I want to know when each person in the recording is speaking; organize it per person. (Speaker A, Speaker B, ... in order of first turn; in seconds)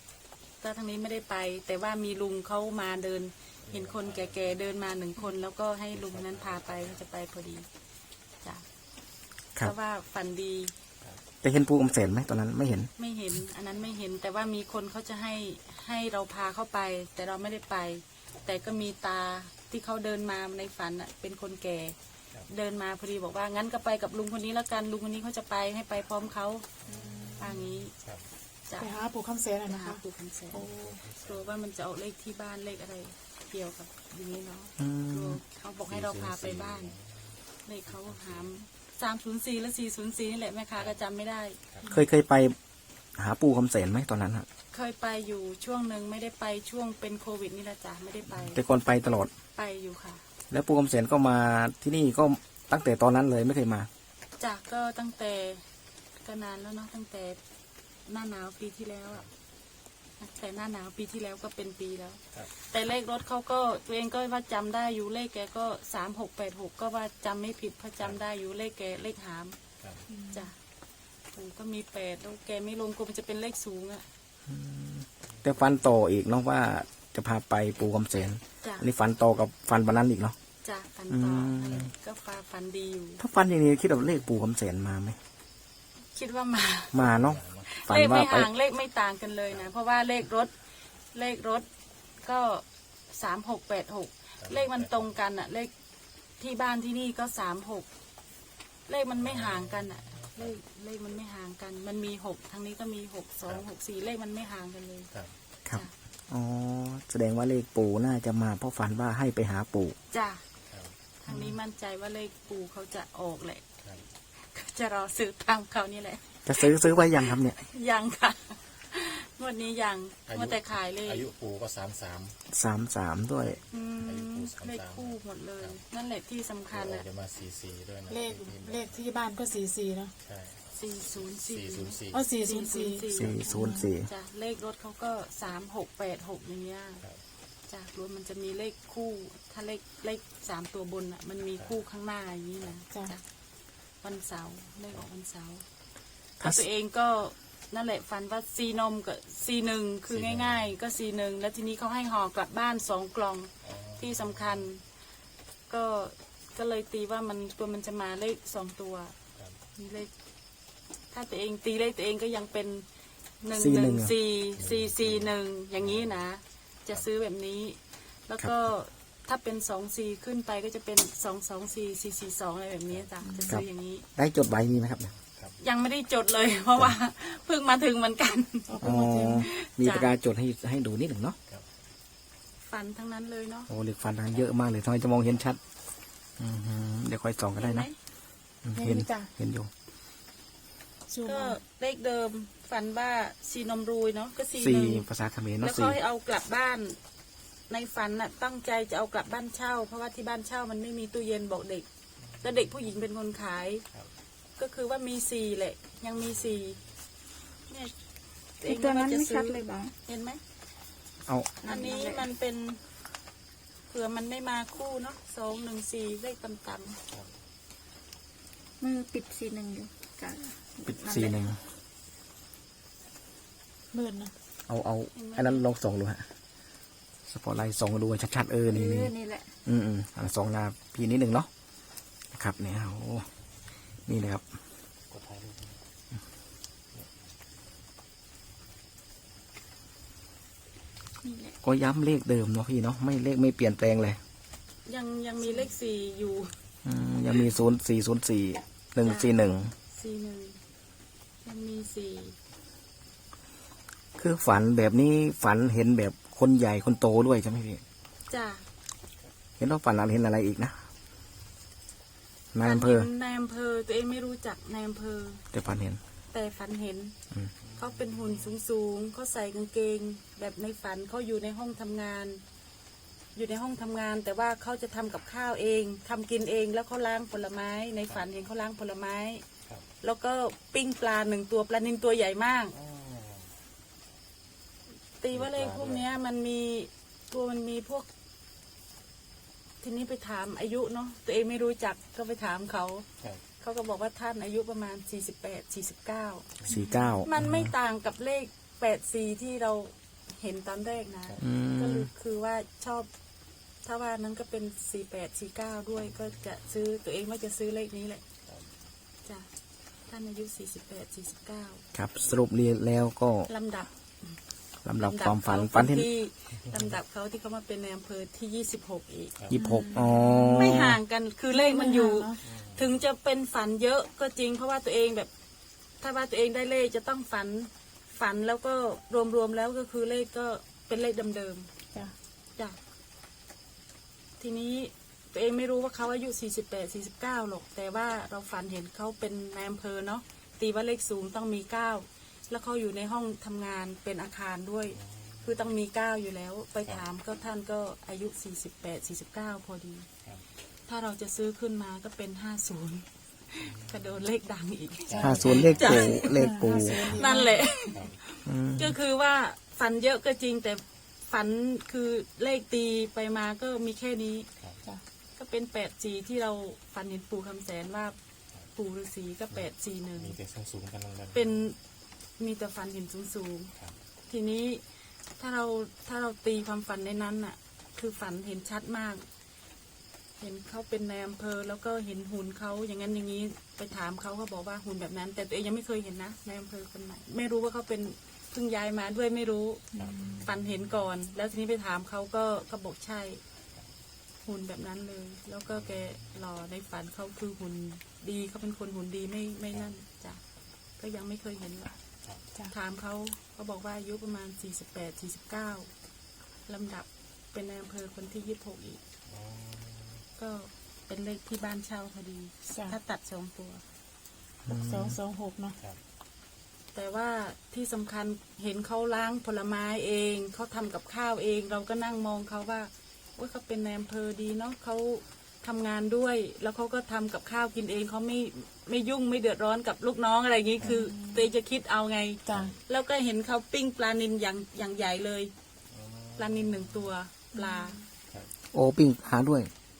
Speaker A: 0.6-7.7, 9.6-10.7, 13.0-22.0, 22.5-26.7, 27.4-27.9, 28.7-29.0, 29.7-30.7, 31.3-36.9, 37.6-41.6, 44.7-48.6, 49.6-50.2, 54.4-55.6, 56.2-57.4, 58.1-59.3, 60.2-69.6, 71.3-74.0, 78.6-78.9, 80.6-83.2, 86.1-87.0, 87.7-90.5, 91.1-91.7, 92.2-95.7, 96.4-97.9, 98.9-105.1, 110.1-110.4, 111.2-113.6, 114.5-121.3, 123.7-127.0, 130.7-133.5, 134.0-137.0, 137.7-143.2, 144.0-145.7, 146.4-154.8, 155.7-159.2, 159.8-160.1, 161.1-162.8, 163.4-174.1, 175.6-180.1, 182.7-183.7, 187.6-187.9, 191.2-195.1, 195.6-197.0, 197.7-201.9, 202.4-203.8, 204.6-206.8, 208.6-210.4, 211.6-212.8, 213.9-217.0, 225.2-225.6, 244.9-246.5, 249.0-249.3, 249.9-250.6, 251.4-252.4, 258.3-258.6, 262.6-265.4, 266.3-267.1, 267.8-272.4, 273.4-279.4, 280.0-282.8, 285.2-288.1, 289.8-293.1, 293.6-296.6, 297.2-303.1, 303.8-308.2, 310.1-311.8, 313.5-313.9, 315.0-319.3, 320.5-325.3, 326.0-331.7, 334.4-350.1, 350.9-364.5, 365.4-368.2, 368.8-370.4, 371.3-371.8, 372.4-373.7, 374.3-374.8, 375.4-379.2, 380.4-389.8, 390.4-393.4, 394.4-400.4, 401.0-402.0, 402.7-405.9, 406.7-409.0, 410.4-413.8, 416.9-435.5, 436.4-438.0
Speaker B: 3.7-4.6, 5.9-7.0, 26.8-28.2, 30.6-31.5, 35.9-37.4, 37.9-38.5, 87.0-87.7, 94.4-95.2, 99.2-100.6, 120.3-122.4, 124.0-125.8, 126.7-129.0, 130.2-130.7, 131.4-132.3, 150.1-150.7, 153.6-154.7, 164.6-166.2, 175.3-175.6, 202.4-202.7, 206.2-206.8, 235.1-235.8, 267.7-268.6, 282.7-283.5, 285.3-286.1, 322.4-322.9, 345.0-345.7, 353.6-354.1, 355.1-356.1, 357.9-358.2, 370.2-371.6, 389.9-390.6, 395.7-396.2, 409.3-410.2, 435.9-437.1
Speaker C: 11.4-12.9, 34.8-35.4, 41.9-42.6, 43.2-44.5, 48.3-49.3, 50.5-53.9, 74.5-80.4, 81.1-81.9, 83.2-85.2, 86.9-88.5, 105.7-110.0, 111.3-111.6, 116.5-117.6, 122.5-123.6, 133.1-134.1, 146.4-146.7, 163.6-164.1, 173.5-175.1, 178.8-181.4, 183.7-185.6, 186.4-187.9, 188.6-189.7, 194.6-196.0, 211.3-211.6, 220.9-221.6, 224.7-226.3, 227.3-229.1, 229.7-231.5, 232.3-233.3, 234.1-234.4, 241.6-244.2, 246.8-249.7, 254.2-257.8, 259.6-260.8, 262.5-263.1, 265.5-266.0, 296.7-297.7, 301.4-302.1, 311.9-313.5, 314.9-316.1, 319.5-321.0, 355.2-357.2, 358.5-359.0, 414.7-415.2, 438.7-439.7
Speaker D: 26.9-27.4, 28.8-31.0, 70.1-70.5, 128.1-130.1, 132.1-133.9, 173.2-173.6, 178.7-179.5, 188.8-189.3, 191.1-191.6, 223.9-224.3, 296.7-297.1, 319.5-320.7, 321.5-322.4, 355.1-357.6, 389.9-390.4, 412.7-413.0, 414.7-415.8, 430.8-431.5, 432.5-432.8, 437.5-438.0
Speaker E: 208.6-209.9, 211.6-212.3, 218.8-221.4, 228.7-229.5, 241.2-241.5